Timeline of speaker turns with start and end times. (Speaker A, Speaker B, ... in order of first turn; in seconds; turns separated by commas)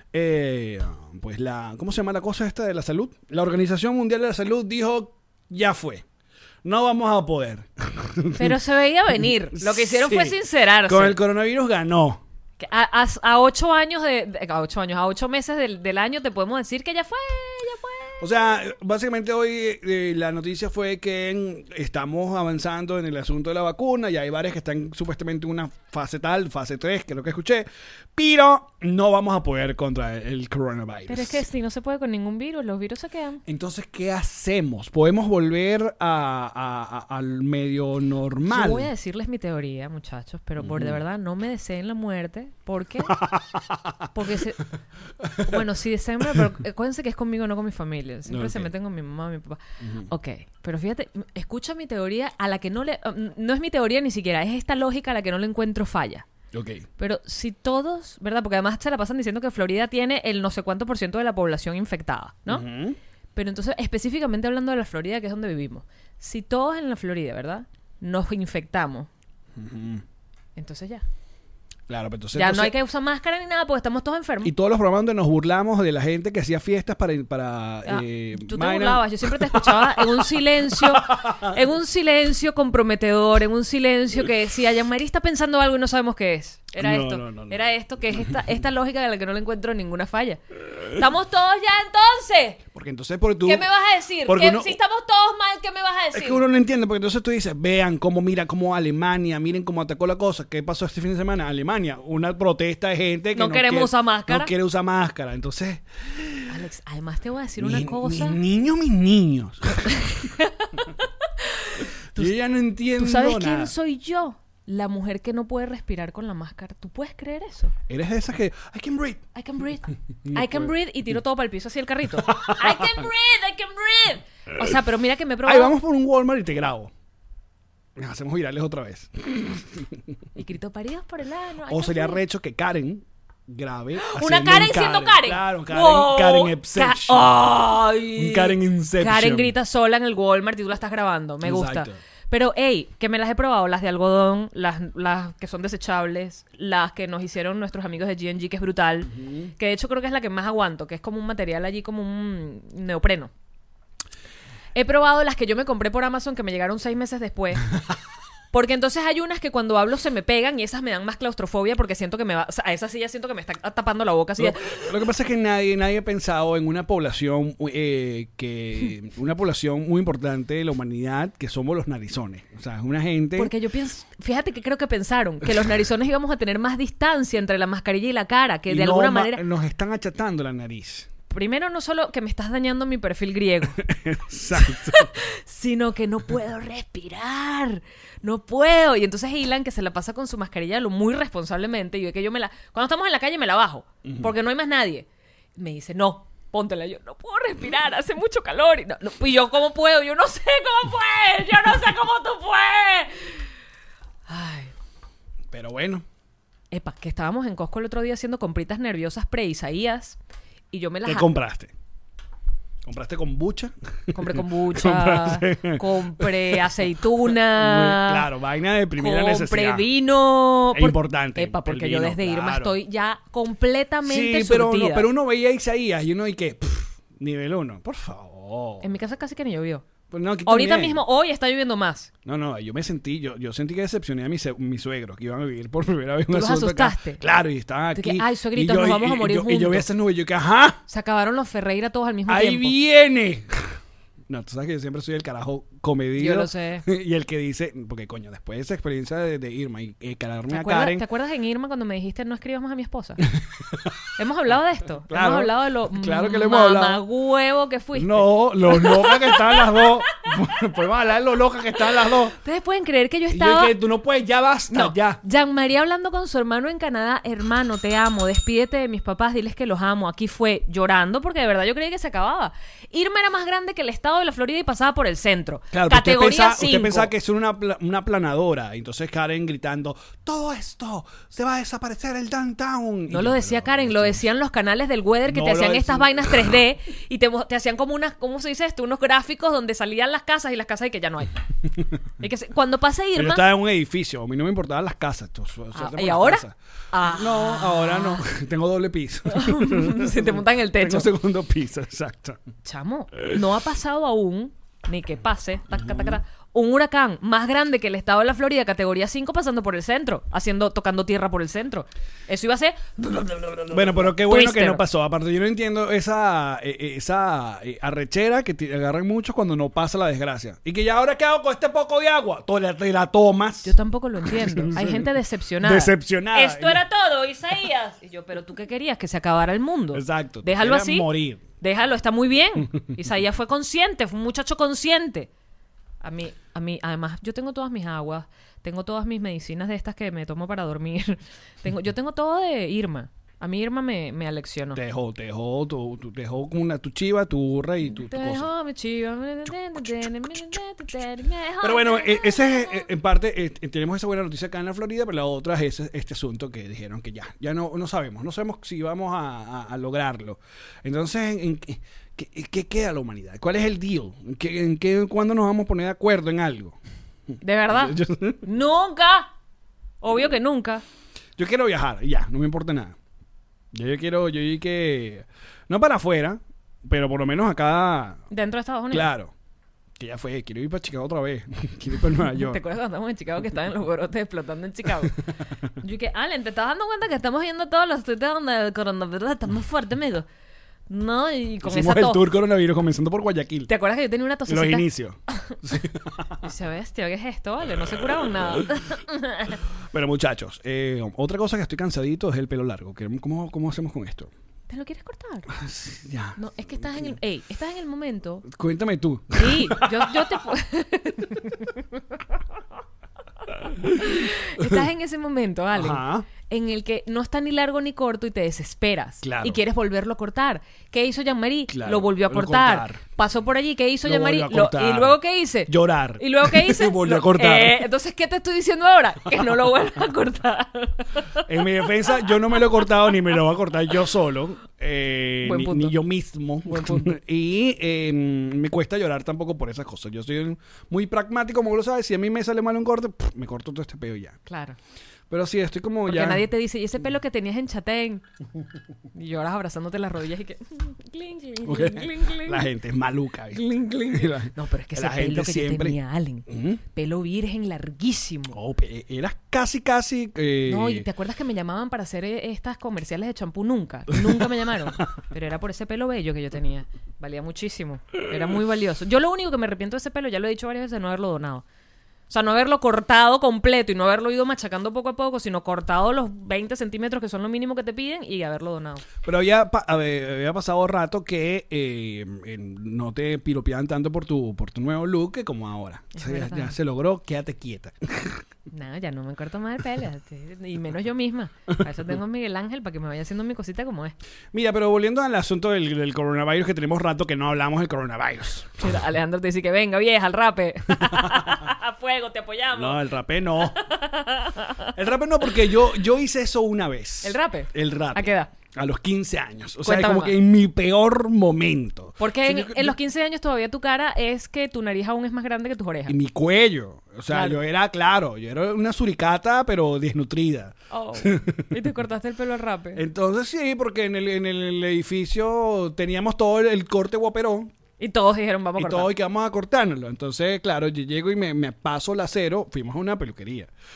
Speaker A: 0.1-6.0, Speaker A: 6.6-8.6, Speaker B: 8.4-11.2, Speaker A: 9.5-12.2, Speaker B: 12.6-18.3, Speaker A: 18.2-31.4, Speaker B: 31.1-33.4, Speaker A: 33.5-38.9, Speaker B: 38.5-43.2, Speaker A: 40.6-41.0, Speaker A: 43.1-44.1, Speaker B: 44.1-44.6, Speaker A: 45.2-45.6, Speaker B: 45.4-56.3, Speaker A: 48.3-48.7, Speaker A: 49.8-50.1, Speaker A: 56.5-56.9, Speaker B: 57.0-62.7, Speaker A: 62.5-63.0, Speaker B: 63.4-69.1, Speaker A: 69.5-70.0, Speaker B: 70.6-71.0, Speaker A: 71.9-72.8, Speaker B: 72.3-74.5, Speaker A: 74.4-81.6, Speaker B: 77.9-92.6, Speaker A: 86.8-87.6, Speaker A: 92.7-93.7, Speaker B: 93.4-96.4, Speaker A: 94.2-94.8, Speaker A: 96.1-106.6, Speaker B: 103.3-104.5, Speaker B: 106.5-108.4, Speaker A: 107.6-110.1, Speaker B: 109.7-112.3, Speaker A: 112.2-113.7, Speaker B: 113.0-117.7, Speaker A: 117.9-119.2, Speaker B: 119.3-125.7, Speaker A: 120.2-120.7, Speaker A: 122.2-123.1, Speaker A: 125.5-126.9, Speaker A: 128.0-130.0, Speaker B: 130.4-132.2, Speaker A: 131.7-137.4, Speaker B: 134.0-153.3, Speaker A: 138.2-139.6, Speaker A: 141.4-142.0, Speaker A: 149.1-149.5, Speaker B: 154.8-157.7, Speaker B: 158.5-164.9, Speaker A: 164.4-173.5, Speaker B: 173.4-179.4, Speaker A: 178.7-181.1, Speaker B: 181.3-183.8, Speaker A: 183.8-185.1, Speaker B: 184.6-203.4, Speaker A: 194.0-194.3, Speaker B: 204.3-204.7, Speaker A: 205.5-206.1, Speaker B: 206.7-210.2, Speaker B: 210.7-211.3, Speaker A: 211.1-211.7, Speaker A: 212.8-219.9, Speaker B: 214.1-218.3, Speaker B: 219.0-225.1, Speaker A: 220.7-222.8, Speaker A: 224.1-228.9, Speaker B: 228.8-229.8, Speaker A: 230.1-231.0, Speaker B: 230.5-232.1, Speaker A: 232.2-240.8, Speaker B: 236.3-237.2, Speaker B: 237.9-239.9, Speaker B: 240.9-242.8, Speaker A: 242.3-243.8, Speaker A: 244.3-251.0, Speaker B: 246.2-246.9, Speaker B: 250.5-253.3, Speaker B: 254.2-259.9, Speaker A: 255.1-257.0, Speaker A: 257.9-262.4, Speaker B: 262.1-263.8, Speaker A: 263.3-265.2, Speaker B: 264.7-277.1, Speaker A: 275.7-284.3, Speaker B: 283.1-291.4, Speaker A: 285.3-286.5, Speaker B: 292.2-293.4, Speaker A: 293.1-302.4, Speaker B: 295.7-298.2, Speaker B: 299.3-301.1, Speaker B: 302.6-314.8, Speaker A: 305.7-306.2, Speaker A: 313.7-323.7, Speaker B: 323.6-335.3, Speaker A: 324.3-326.9, Speaker A: 329.9-331.4, Speaker B: 336.0-344.8, Speaker A: 344.8-348.5, Speaker B: 347.8-352.9, Speaker A: 349.8-350.6, Speaker A: 351.6-366.8, Speaker B: 367.4-369.3, Speaker A: 367.7-368.5, Speaker B: 370.0-370.8, Speaker A: 371.4-373.0, Speaker A: 373.7-378.2, Speaker B: 378.3-379.1, Speaker A: 378.9-379.3, Speaker A: 380.0-382.6, Speaker B: 382.2-385.2, Speaker B: 385.8-390.3, Speaker B: 390.9-392.2, Speaker A: 391.6-393.7, Speaker B: 393.7-395.6, Speaker A: 394.5-396.5, Speaker B: 396.4-399.6, Speaker A: 399.9-404.3, Speaker B: 404.7-405.5, Speaker A: 405.5-407.1, Speaker B: 406.4-408.5, Speaker A: 408.4-410.4, Speaker B: 409.4-412.2, Speaker A: 413.5-414.8, Speaker B: 414.0-432.5, Speaker A: 415.7-416.3, Speaker A: 419.2-419.6, Speaker A: 421.7-423.0, Speaker A: 424.0-427.9, Speaker A: 431.4-444.4, Speaker B: 435.4-435.9, Speaker B: 436.7-437.2, Speaker B: 444.5-444.8, Speaker A: 445.3-446.5, Speaker B: 446.1-448.2, Speaker B: 449.1-452.7, Speaker A: 451.6-456.8, Speaker B: 453.5-458.6, Speaker A: 458.5-461.1, Speaker B: 460.7-471.6, Speaker A: 464.1-465.1, Speaker B: 472.3-479.1, Speaker A: 479.2-488.4, Speaker B: 486.1-486.8, Speaker B: 488.7-494.1, Speaker A: 494.5-498.8, Speaker B: 498.8-503.0, Speaker A: 500.9-501.7, Speaker A: 502.7-503.9, Speaker B: 503.6-504.9, Speaker A: 504.9-513.0, Speaker B: 507.2-508.5, Speaker B: 509.8-510.4, Speaker B: 512.2-516.1, Speaker A: 516.1-521.8, Speaker B: 517.3-517.6, Speaker B: 520.9-523.0, Speaker A: 523.0-527.7, Speaker B: 528.0-529.1, Speaker A: 528.8-533.7